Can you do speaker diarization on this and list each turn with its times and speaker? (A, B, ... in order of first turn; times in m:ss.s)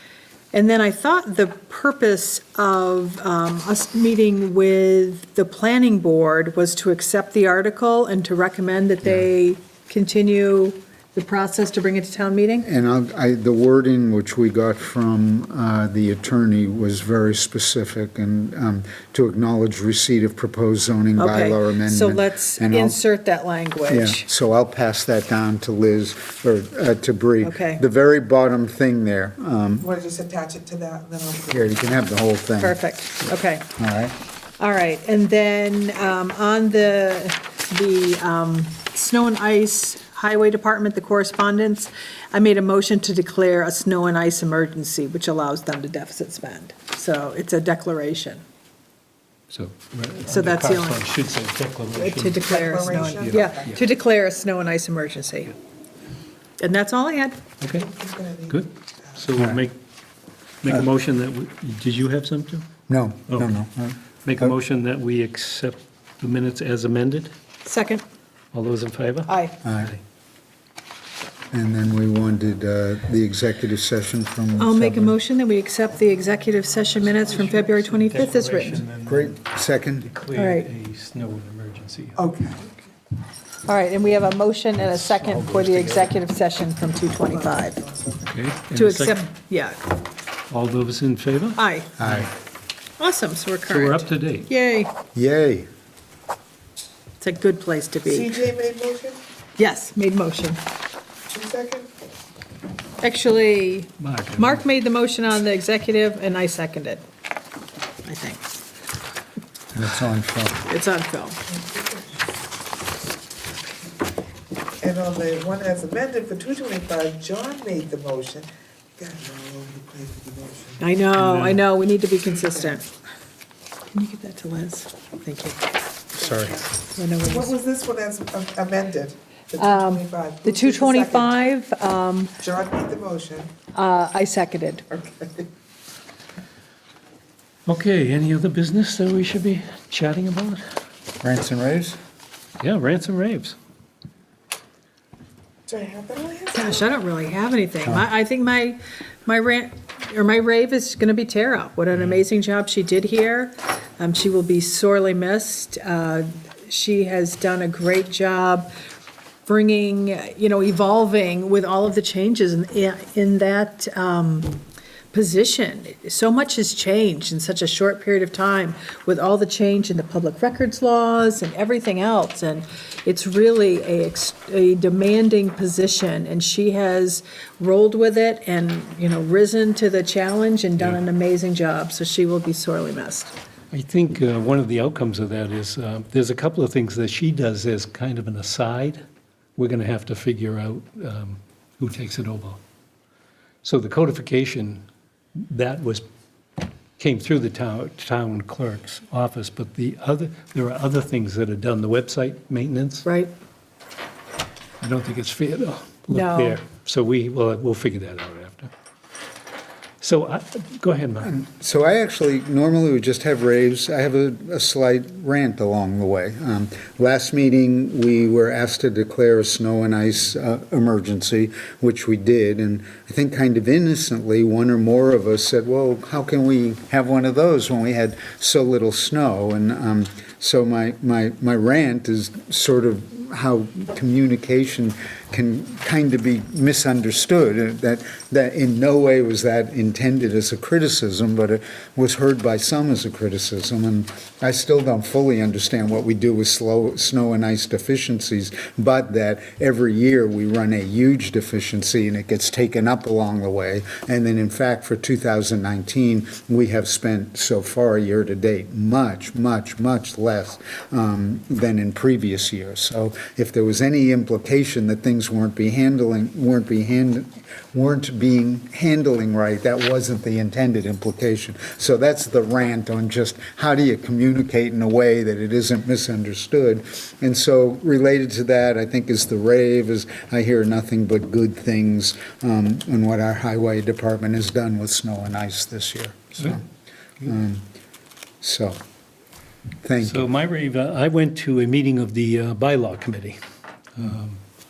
0:00.5-0:12.7 A
0:12.6-0:23.0 B
0:21.2-0:24.2 A
0:23.9-0:29.9 B
0:27.4-0:27.8 A
0:29.8-0:31.7 C
0:31.5-0:32.8 B
0:32.6-0:33.7 A
0:33.8-0:34.2 B
0:34.6-0:48.4 A
0:49.5-0:53.8 D
0:50.2-0:51.1 A
0:51.9-0:55.6 A
0:52.4-0:53.8 C
0:56.6-0:57.4 A
0:57.6-0:57.9 D
0:57.7-0:58.6 C
0:58.5-0:59.8 D
0:59.4-0:59.6 B
1:00.6-1:02.7 D
1:02.9-1:04.5 B
1:03.3-1:03.5 D
1:04.2-1:07.3 D
1:07.6-1:08.0 A
1:08.5-1:10.0 D
1:09.3-1:09.6 A
1:09.6-1:09.9 B
1:11.5-1:15.2 B
1:14.6-1:18.9 A
1:17.1-1:19.4 D
1:19.0-1:20.1 B
1:20.0-1:22.2 D
1:20.3-1:20.7 A
1:22.2-1:22.8 C
1:23.6-1:27.8 A
1:24.9-1:26.1 D
1:27.3-1:28.2 C
1:28.2-1:29.2 D
1:28.7-1:29.8 A
1:30.5-1:32.3 D
1:31.6-1:31.9 A
1:32.0-1:32.3 B
1:33.0-1:34.9 A
1:33.7-1:34.5 D
1:35.1-1:35.7 B
1:37.2-1:38.4 A
1:38.1-1:39.2 C
1:39.6-1:40.6 A
1:41.3-1:41.9 C
1:43.0-1:47.0 A
1:44.0-1:44.6 D
1:48.0-1:48.5 A
1:49.7-1:50.6 B
1:50.6-1:51.4 A
1:51.5-1:52.2 C
1:54.8-2:00.8 C
2:00.8-2:02.9 A
2:01.2-2:01.6 D
2:02.4-2:02.8 C
2:03.9-2:05.6 A
2:06.1-2:06.6 B
2:06.2-2:06.6 C
2:06.9-2:07.5 A
2:07.2-2:11.4 C
2:09.6-2:12.4 A
2:12.4-2:13.5 C
2:13.7-2:14.8 A
2:14.9-2:15.5 C
2:17.6-2:20.6 D
2:21.2-2:22.0 B
2:22.6-2:23.6 D
2:25.7-2:26.8 C
2:26.5-2:38.7 A
2:39.4-2:44.6 A
2:45.1-3:03.3 A
3:03.7-3:09.0 D
3:09.6-3:12.6 D
3:13.6-3:14.8 D
3:15.4-3:16.0 D
3:17.0-3:23.1 D
3:23.0-3:23.3 A
3:24.8-3:28.7 D
3:26.1-3:26.6 A
3:30.0-3:31.3 D
3:31.2-4:46.6 B
4:47.2-4:47.6 B
4:48.4-4:48.8 B
4:49.8-4:50.2 B
4:50.0-4:53.4 D
4:54.0-4:54.4 D